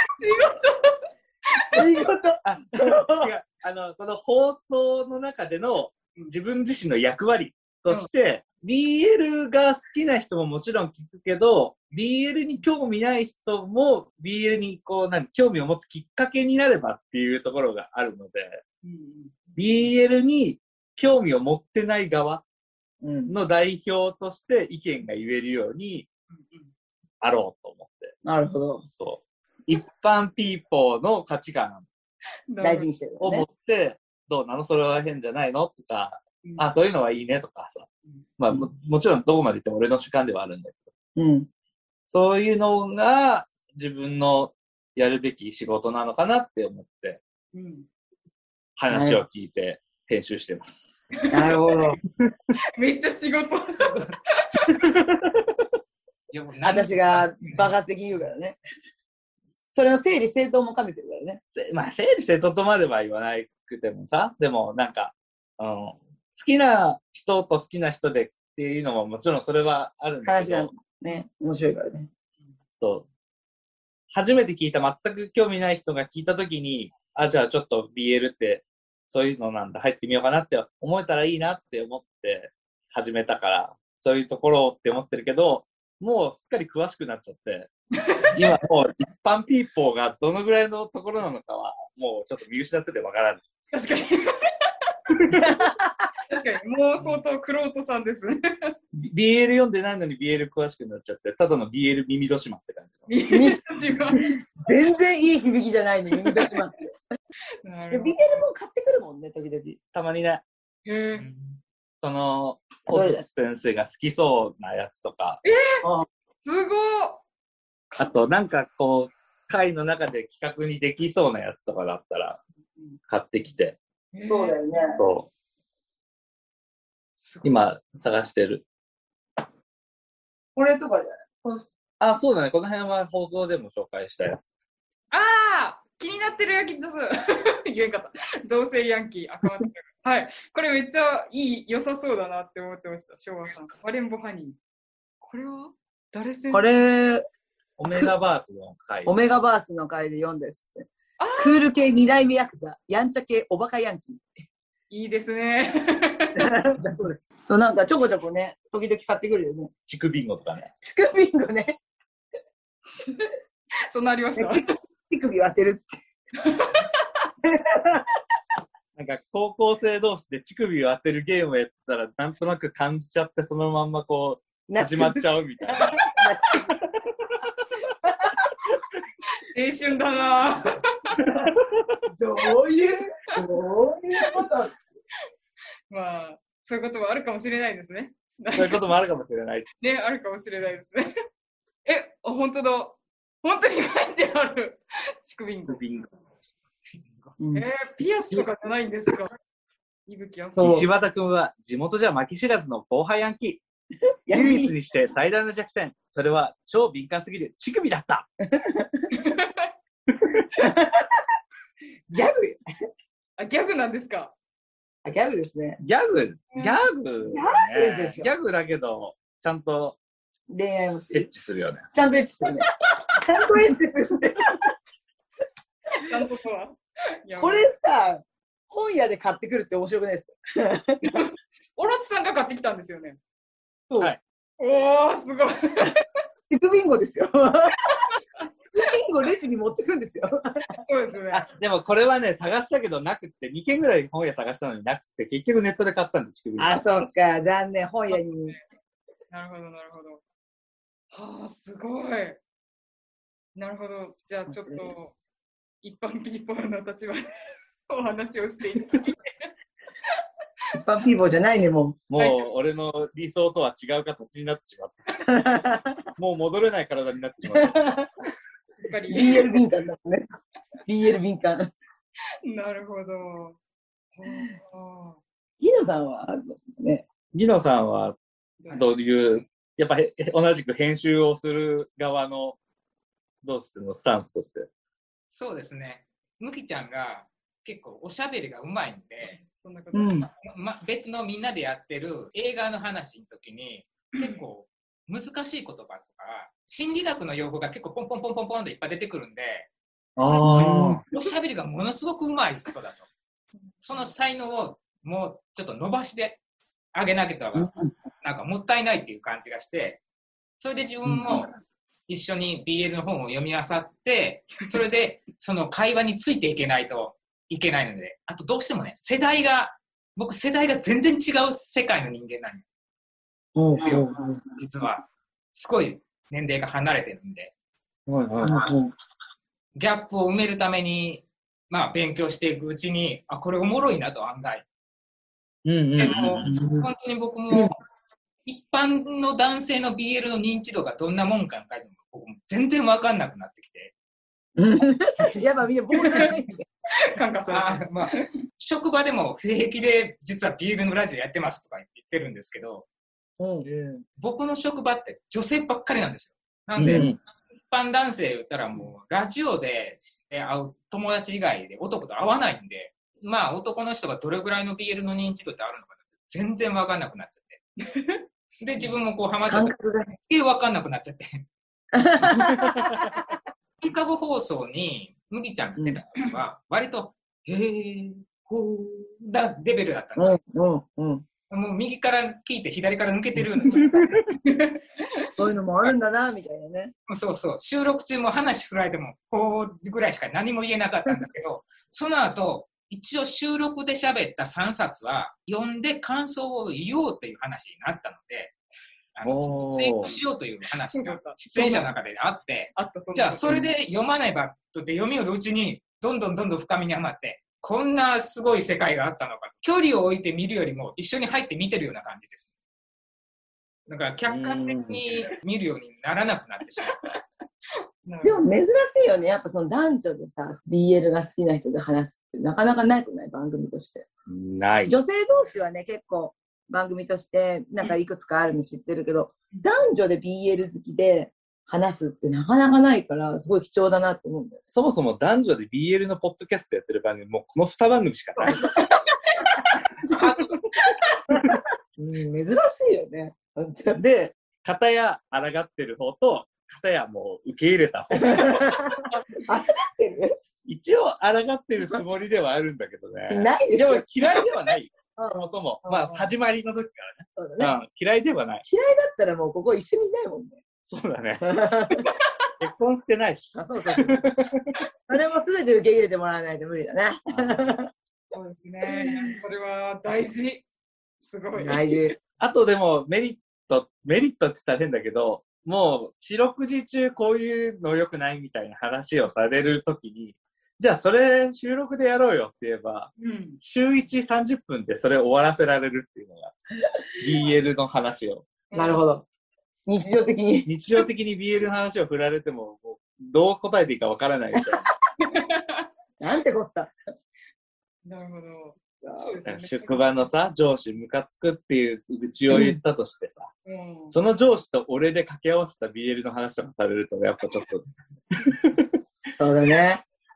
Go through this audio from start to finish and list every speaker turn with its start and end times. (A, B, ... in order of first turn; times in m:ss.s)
0:00.2-0:01.8 A
0:01.7-0:03.3 B
0:02.4-0:18.6 C
0:18.8-0:19.4 A
0:19.6-0:22.4 C
0:23.0-0:23.3 B
0:23.3-0:26.1 C
0:26.3-0:26.7 A
0:27.2-0:28.2 C
0:28.2-0:28.9 B
0:29.0-0:31.9 C
0:32.5-0:32.9 A
0:32.6-0:33.5 B
0:33.2-0:40.9 C
0:41.2-0:41.5 B
0:42.1-0:47.2 C
0:47.5-0:47.9 A
0:48.8-0:51.0 C
0:48.9-0:49.2 B
0:51.3-0:51.6 A
0:51.3-0:52.0 B
0:52.8-0:54.0 A
0:56.3-0:57.7 D
0:56.6-0:58.6 B
0:59.7-1:01.4 B
1:01.5-1:10.7 C
1:10.2-1:12.1 B
1:12.8-1:13.1 C
1:14.1-1:27.7 C
1:28.1-1:28.5 A
1:28.3-1:33.4 C
1:33.7-1:34.3 A
1:35.3-1:36.1 B
1:36.3-1:38.7 A
1:38.9-1:43.1 C
1:43.1-1:44.2 A
1:43.3-1:43.6 B
1:44.6-1:46.9 B
1:47.6-1:48.4 A
1:47.9-1:49.8 B
1:49.9-1:50.4 C
1:50.8-1:51.3 A
1:51.1-1:51.6 D
1:52.0-1:55.4 C
1:52.9-1:53.3 B
1:55.4-1:55.8 A
1:56.4-1:57.2 A
1:58.0-2:02.4 C
2:03.1-2:03.8 C
2:04.1-2:04.7 A
2:04.3-2:05.0 B
2:04.9-2:05.3 C
2:07.2-2:07.7 A
2:07.4-2:08.6 C
2:10.6-2:11.7 B
2:12.0-2:14.5 C
2:15.1-2:24.6 A
2:25.2-2:26.8 A
2:26.5-2:27.2 B
2:27.8-2:29.2 C
2:29.1-2:34.2 B
2:31.2-2:31.6 A
2:34.9-2:36.5 A
2:36.4-2:39.7 B
2:39.9-2:40.7 C
2:40.8-2:41.8 B
2:42.9-2:43.3 A
2:43.9-2:44.6 A
2:44.4-2:46.0 B
2:46.4-2:46.9 A
2:47.4-2:48.0 B
2:49.0-2:56.1 C
2:54.7-2:56.6 B
2:58.0-2:58.4 B
2:59.5-3:00.7 A
3:02.1-3:04.8 B
3:05.9-3:08.9 A
3:08.6-3:09.7 C
3:09.8-3:11.1 A
3:11.8-3:15.8 A
3:15.7-3:16.1 C
3:17.4-3:17.7 B
3:17.6-3:19.3 A
3:20.1-3:20.8 A
3:20.6-3:20.9 B
3:20.6-3:23.6 C
3:24.3-3:24.7 B
3:24.3-3:28.3 C
3:28.5-3:29.1 B
3:29.1-3:29.7 A
3:30.6-3:31.1 B
3:32.1-3:32.6 B
3:33.4-3:34.3 A
3:35.0-3:35.8 B
3:35.8-3:40.0 C
3:36.5-3:36.8 A
3:37.2-3:38.3 B
3:40.5-3:41.3 B
3:41.1-3:41.9 C
3:41.9-3:44.7 B
3:46.0-3:47.7 A
3:47.4-3:51.2 B
3:51.1-3:53.2 A
3:54.6-3:56.0 A
3:56.5-3:57.9 B
3:58.6-4:00.7 B
4:00.8-4:01.5 A
4:01.3-4:06.9 C
4:06.6-4:08.6 B
4:08.1-4:08.6 A
4:09.3-4:10.2 A
4:11.1-4:12.4 A
4:13.6-4:15.2 A
4:14.5-4:14.9 B
4:15.8-4:19.5 A
4:20.7-4:22.0 B
4:22.1-4:25.1 C
4:22.2-4:22.5 A
4:25.2-4:26.0 B
4:26.2-4:28.0 C
4:27.6-4:28.1 B
4:28.8-4:29.5 A
4:29.1-4:30.3 B
4:30.9-4:31.7 B
4:32.4-4:33.6 A
4:34.2-4:35.2 A
4:35.6-4:37.1 B
4:37.3-4:38.2 C
4:38.6-4:38.9 A
4:38.7-4:42.6 C
4:43.4-4:44.7 C
4:45.3-4:49.4 D
4:49.2-4:50.3 A
4:49.9-4:50.3 B
4:50.4-4:59.7 D
5:00.2-5:01.0 C
5:00.2-5:01.0 B
5:00.5-5:03.1 D
5:03.8-5:06.4 D
5:06.9-5:10.0 D
5:10.6-5:11.5 D
5:11.1-5:11.4 B
5:12.1-5:22.6 D
5:23.6-5:24.1 B
5:23.8-5:24.3 C
5:23.8-5:27.5 D
5:28.1-5:28.7 C
5:28.4-5:28.9 B
5:29.8-5:34.7 D
5:35.6-5:36.6 C
5:36.0-5:37.8 D
5:36.1-5:36.8 B
5:38.5-5:43.9 D
5:44.6-5:46.7 B
5:46.0-5:46.3 A
5:47.1-5:47.9 A
5:47.5-5:52.9 D
5:53.4-5:53.7 B
5:53.6-5:54.0 C
5:54.2-5:57.2 D
5:56.8-5:57.2 C
5:57.7-6:07.6 D
6:08.0-6:08.2 A
6:08.6-6:09.8 D
6:09.5-6:10.2 B
6:10.3-6:11.5 D
6:11.9-6:13.3 B
6:13.8-6:20.4 D
6:20.2-6:21.2 B
6:21.5-6:24.3 D
6:24.5-6:24.8 A
6:25.4-6:26.9 B
6:27.1-6:38.6 D
6:39.2-6:52.5 D
6:39.2-6:40.2 C
6:41.0-6:41.9 A
6:42.8-6:43.7 A
6:53.9-6:57.0 D
6:54.3-6:55.2 C
6:58.0-6:58.5 A
6:58.2-7:04.1 B
7:04.3-7:05.0 C
7:04.9-7:14.6 B
7:14.7-7:18.7 C
7:18.4-7:18.8 A
7:20.1-7:20.6 D
7:21.3-7:24.0 B
7:24.0-7:28.7 C
7:28.2-7:28.9 B
7:29.0-7:29.3 A
7:29.5-7:30.3 B
7:30.7-7:38.6 C
7:33.3-7:34.1 B
7:35.2-7:36.3 B
7:37.4-7:37.7 B
7:38.6-7:40.6 B
7:40.9-7:41.5 C
7:41.4-7:42.1 B
7:42.6-7:44.6 C
7:43.6-7:44.3 B
7:45.1-7:47.9 B
7:47.3-7:47.7 C
7:48.3-7:50.6 A
7:48.8-7:49.4 B
7:51.2-7:52.0 A
7:51.6-7:52.2 B
7:52.4-8:03.1 C
8:03.2-8:03.6 A
8:03.6-8:06.5 C
8:07.2-8:08.4 C
8:08.7-8:09.0 A
8:08.7-8:09.3 B
8:09.9-8:10.8 B
8:10.7-8:14.9 C
8:15.3-8:15.8 A
8:16.2-8:16.9 B
8:18.0-8:20.1 A
8:19.0-8:19.4 B
8:19.5-8:23.5 C
8:22.5-8:22.8 B
8:23.6-8:24.2 A
8:24.1-8:29.0 C
8:29.3-8:30.0 B